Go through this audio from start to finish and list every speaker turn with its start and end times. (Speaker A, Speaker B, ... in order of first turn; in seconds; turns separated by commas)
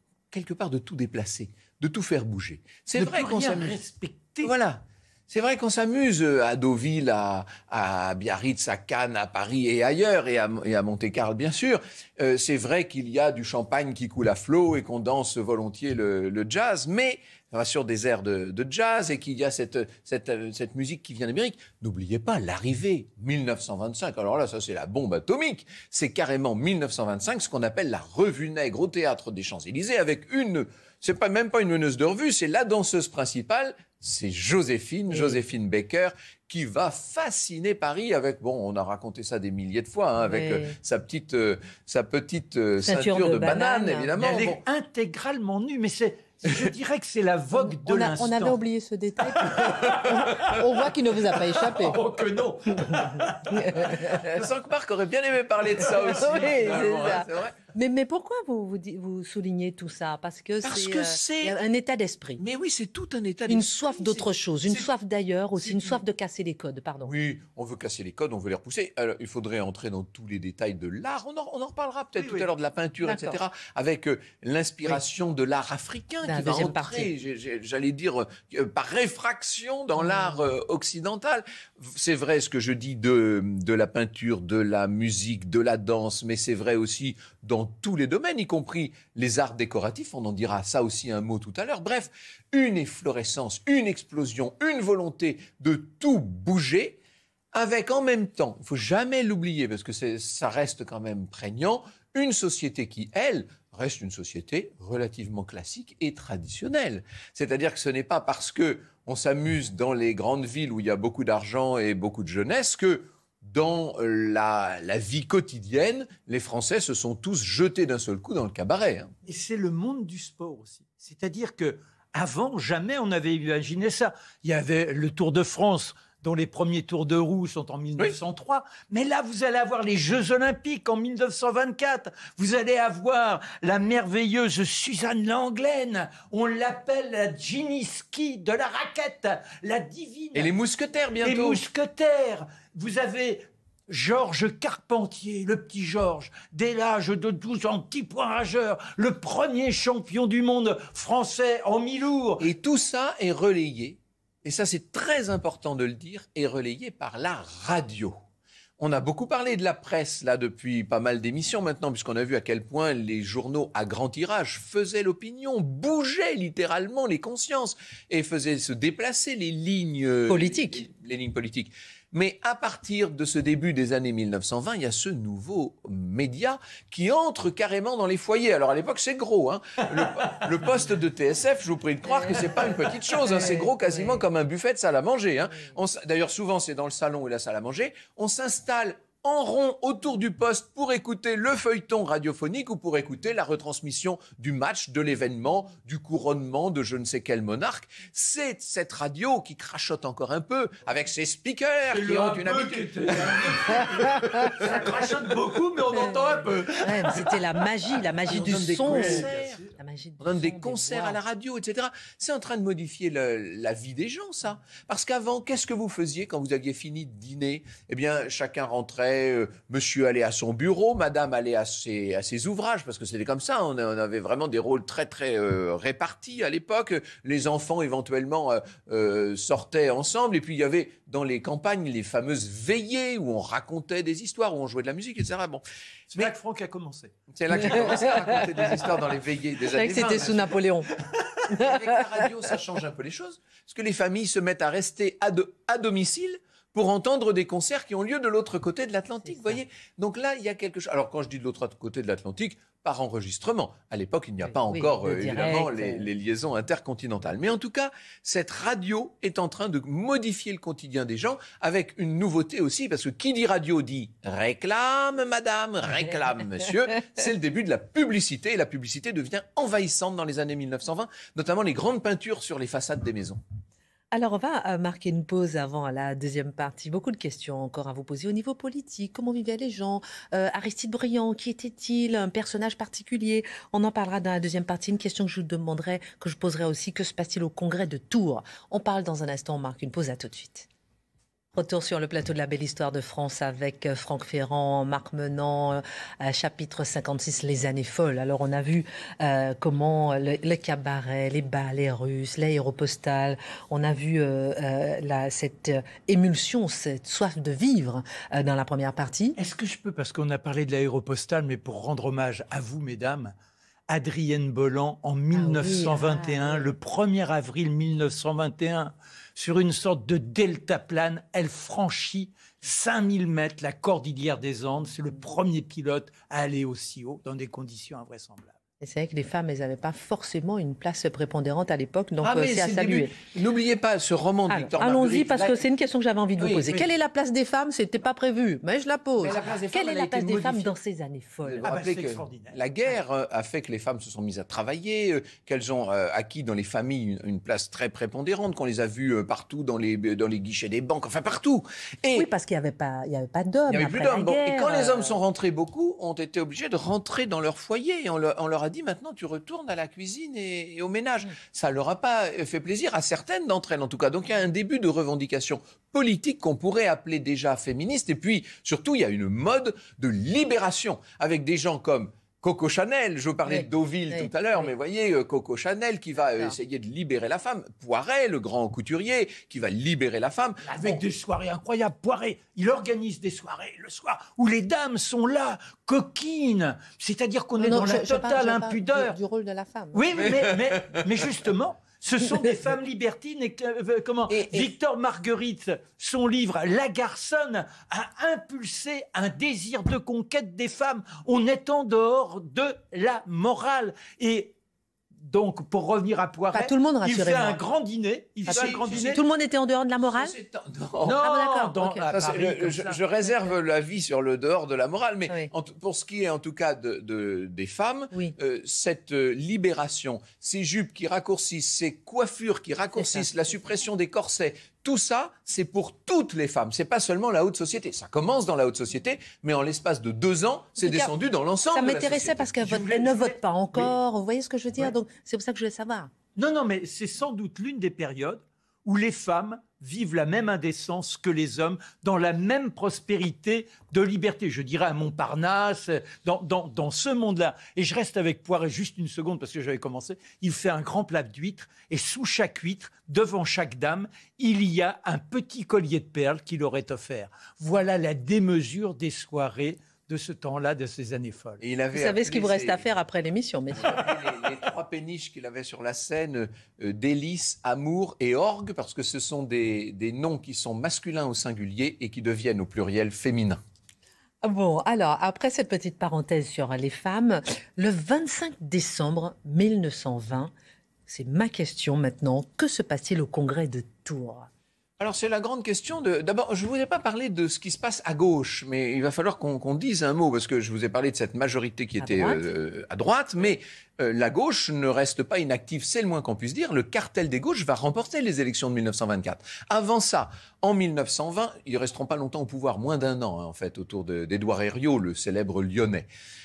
Speaker A: 0.3-3.8, Speaker B: 2.9-4.5, Speaker A: 4.4-44.6, Speaker C: 35.1-35.4, Speaker C: 40.2-40.8, Speaker C: 42.8-44.1, Speaker B: 44.2-48.6, Speaker C: 47.6-52.0, Speaker B: 49.3-50.3, Speaker A: 49.9-50.2, Speaker B: 51.3-54.2, Speaker C: 52.8-54.1, Speaker A: 53.8-57.6, Speaker C: 55.9-62.4, Speaker A: 60.6-61.5, Speaker A: 62.4-64.9, Speaker C: 63.5-67.1, Speaker A: 65.6-66.0, Speaker A: 67.0-97.0, Speaker B: 72.2-72.5, Speaker C: 73.0-73.4, Speaker C: 76.2-77.1, Speaker C: 80.1-80.4, Speaker A: 97.5-119.1, Speaker B: 119.2-140.5, Speaker A: 140.3-141.6, Speaker B: 141.2-152.5, Speaker A: 152.4-158.2, Speaker A: 158.8-204.9, Speaker C: 170.3-170.8, Speaker C: 182.2-182.4, Speaker B: 201.9-207.4, Speaker C: 204.2-204.5, Speaker C: 206.8-211.2, Speaker A: 208.3-209.6, Speaker B: 208.3-209.7, Speaker A: 210.2-235.6, Speaker B: 236.1-237.1, Speaker A: 237.3-240.6, Speaker C: 237.6-238.4, Speaker C: 239.7-240.9, Speaker A: 241.5-273.4, Speaker C: 254.5-256.1, Speaker C: 274.1-290.7, Speaker C: 291.5-309.4, Speaker B: 309.4-313.3, Speaker B: 313.9-328.5, Speaker C: 315.3-316.7, Speaker C: 328.8-333.1, Speaker A: 332.2-335.6, Speaker C: 334.5-341.7, Speaker A: 336.4-336.8, Speaker A: 339.2-340.8, Speaker A: 341.4-352.3, Speaker B: 341.6-342.6, Speaker C: 352.1-355.2, Speaker A: 353.7-381.0, Speaker C: 373.5-374.3, Speaker B: 380.6-389.2, Speaker C: 387.6-390.3, Speaker B: 389.9-404.5, Speaker A: 390.2-391.2, Speaker A: 394.3-394.7, Speaker B: 405.2-409.2, Speaker C: 406.5-407.6, Speaker A: 408.5-409.2, Speaker C: 408.5-410.3, Speaker A: 410.1-411.2, Speaker B: 411.0-413.0, Speaker C: 411.2-412.1, Speaker A: 412.1-432.5, Speaker C: 423.0-423.2, Speaker C: 430.8-431.1, Speaker C: 431.7-436.1, Speaker B: 432.6-433.9, Speaker B: 436.4-461.6, Speaker A: 461.6-462.9, Speaker C: 461.9-464.1, Speaker A: 463.7-473.6, Speaker C: 474.4-480.5, Speaker C: 481.1-484.5, Speaker A: 485.0-506.1, Speaker C: 492.0-492.5